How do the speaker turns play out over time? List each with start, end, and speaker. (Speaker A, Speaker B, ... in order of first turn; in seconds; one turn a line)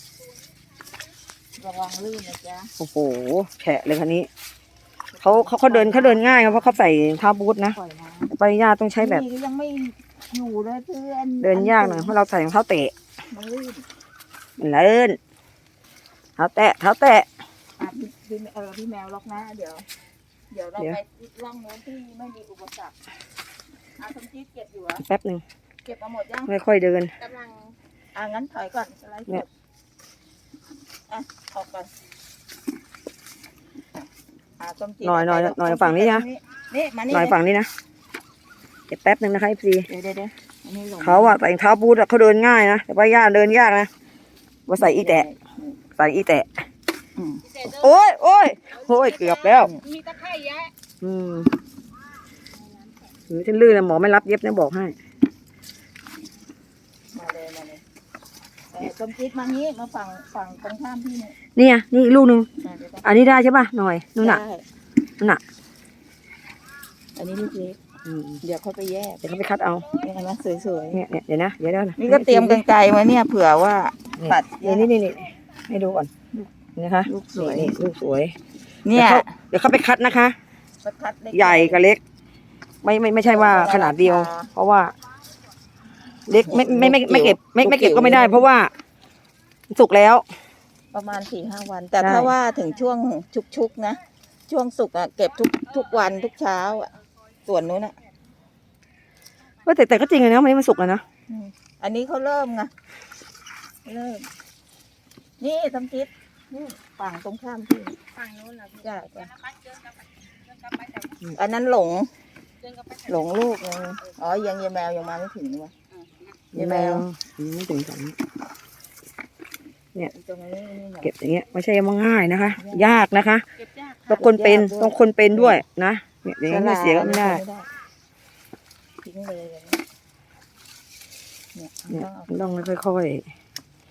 Speaker A: 1.6-2.7
Speaker B: 2.8-4.3
Speaker A: 5.1-6.8
Speaker B: 5.2-7.8
Speaker A: 7.7-8.3
Speaker B: 8.3-9.2
Speaker A: 9.0-12.1
Speaker B: 11.4-12.9
Speaker A: 13.3-13.8
Speaker B: 14.6-15.2
Speaker B: 16.4-17.3
Speaker A: 17.8-19.9
Speaker A: 20.5-22.9
Speaker A: 24.0-25.0
Speaker B: 25.0-25.4
Speaker A: 25.8-26.5
Speaker B: 26.5-27.1
Speaker A: 27.2-29.5
Speaker A: 31.1-31.9
Speaker A: 34.6-37.4
Speaker B: 35.0-36.2
Speaker B: 37.1-37.7
Speaker B: 38.9-39.9
Speaker A: 39.9-41.4
Speaker B: 41.0-43.9
Speaker B: 44.7-45.3
Speaker A: 44.8-45.7
Speaker B: 46.0-46.6
Speaker A: 47.2-47.5
Speaker C: 47.5-47.8
Speaker B: 47.6-49.7
Speaker C: 49.0-50.7
Speaker A: 49.6-49.9
Speaker B: 51.0-51.5
Speaker B: 53.3-55.0
Speaker A: 57.1-57.8
Speaker A: 58.7-61.4
Speaker B: 61.5-62.5
Speaker A: 62.6-63.1
Speaker B: 63.0-64.4
Speaker A: 64.2-64.7
Speaker A: 67.2-67.8
Speaker B: 68.1-68.4
Speaker A: 68.4-69.2
Speaker B: 69.2-69.9
Speaker A: 69.9-71.0
Speaker B: 70.9-72.6
Speaker A: 72.0-74.9
Speaker B: 74.2-76.1
Speaker B: 76.8-78.3
Speaker A: 77.1-77.7
Speaker A: 78.9-79.3
Speaker B: 78.9-80.4
Speaker A: 80.8-81.8
Speaker B: 81.3-82.0
Speaker B: 82.8-84.9
Speaker A: 83.2-84.5
Speaker B: 86.3-88.7
Speaker A: 86.4-88.5
Speaker B: 89.7-90.2
Speaker A: 90.9-96.9
Speaker B: 92.0-92.3
Speaker A: 97.5-98.0
Speaker B: 99.7-101.0
Speaker A: 101.3-102.7
Speaker A: 103.8-104.3
Speaker A: 105.4-108.1
Speaker C: 108.2-108.8
Speaker A: 108.8-109.3
Speaker C: 109.4-110.0
Speaker C: 110.5-111.1
Speaker A: 111.3-112.1
Speaker C: 112.7-113.1
Speaker A: 113.1-115.7
Speaker A: 116.5-117.0
Speaker B: 116.5-118.2
Speaker A: 120.0-121.1
Speaker B: 121.0-123.4
Speaker A: 122.6-122.9
Speaker C: 123.6-124.2
Speaker B: 124.1-127.4
Speaker A: 124.1-125.6
Speaker A: 126.5-127.7
Speaker A: 129.0-129.8
Speaker A: 131.6-132.6
Speaker B: 131.9-133.3